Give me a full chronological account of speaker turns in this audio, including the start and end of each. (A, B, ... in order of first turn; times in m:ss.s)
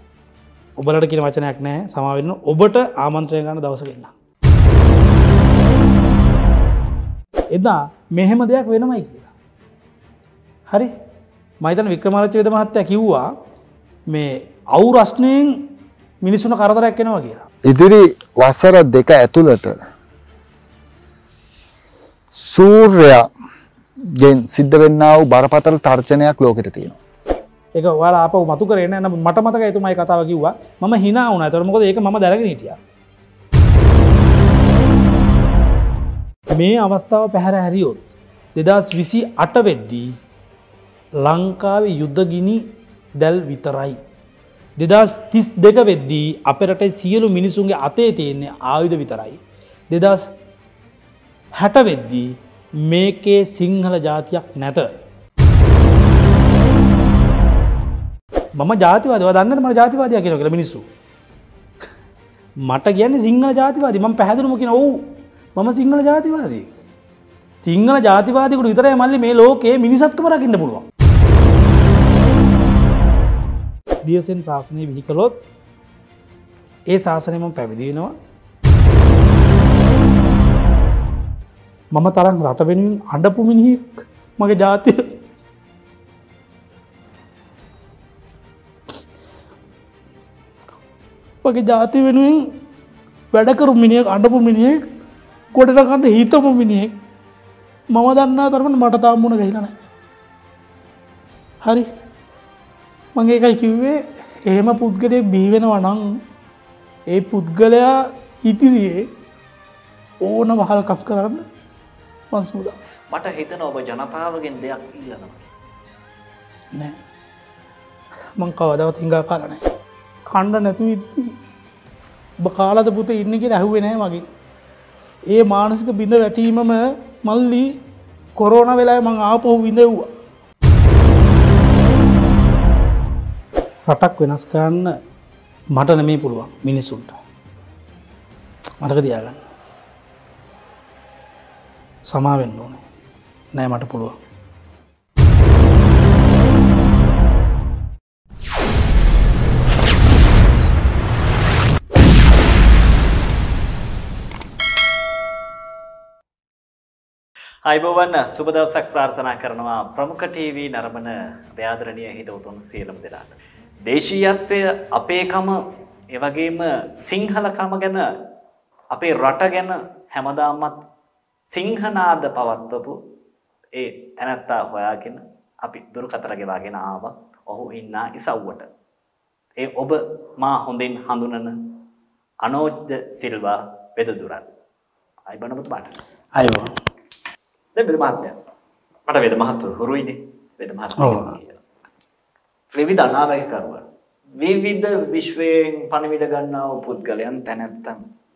0:00.8-0:04.1 A
0:07.5-0:09.3 A
0:11.6-0:13.3 A
0:14.1-0:15.7 A
0:16.2-0:17.5 A
0:17.6-0:19.8 B
0:22.3-0:23.3 B
0:24.0-0:27.0 B
0:27.8-0:32.8 A
0:36.5-0:40.1 A
0:41.2-0:42.7 A
0:43.2-0:44.0 A
0:44.8-0:50.3 A
0:51.6-0:54.9 A
0:58.6-1:00.9 A
1:02.6-1:06.7 A
1:07.6-1:10.9 A
1:14.0-1:15.4 A
1:16.9-1:18.1 A
1:21.9-1:25.1 A
1:31.4-1:32.5 A
1:33.3-1:34.8 A
1:35.6-1:37.0 A
1:37.9-1:39.8 A
1:43.2-1:46.1 A
1:47.1-1:49.1 A
1:50.2-1:51.4 A
1:52.3-1:52.8 A
1:53.1-1:55.5 C
1:58.4-1:59.6 A
2:00.3-2:01.4 A
2:02.4-2:04.3 A
2:05.3-2:07.7 A
2:08.4-2:10.1 A
2:13.9-2:14.9 A
2:15.7-2:17.2 A
2:18.8-2:19.4 A
2:22.1-2:22.8 A
2:23.6-2:24.2 A
2:37.6-2:48.1 C
2:48.9-2:50.8 C
2:51.5-2:53.0 C
2:53.7-2:58.7 C
2:59.6-3:01.6 C
3:02.4-3:04.5 C
3:05.3-3:06.0 C
3:06.4-3:06.7 A
3:07.8-3:08.4 C
3:09.1-3:11.6 C
3:11.0-3:11.4 A
3:12.7-3:13.8 C
3:14.4-3:18.0 C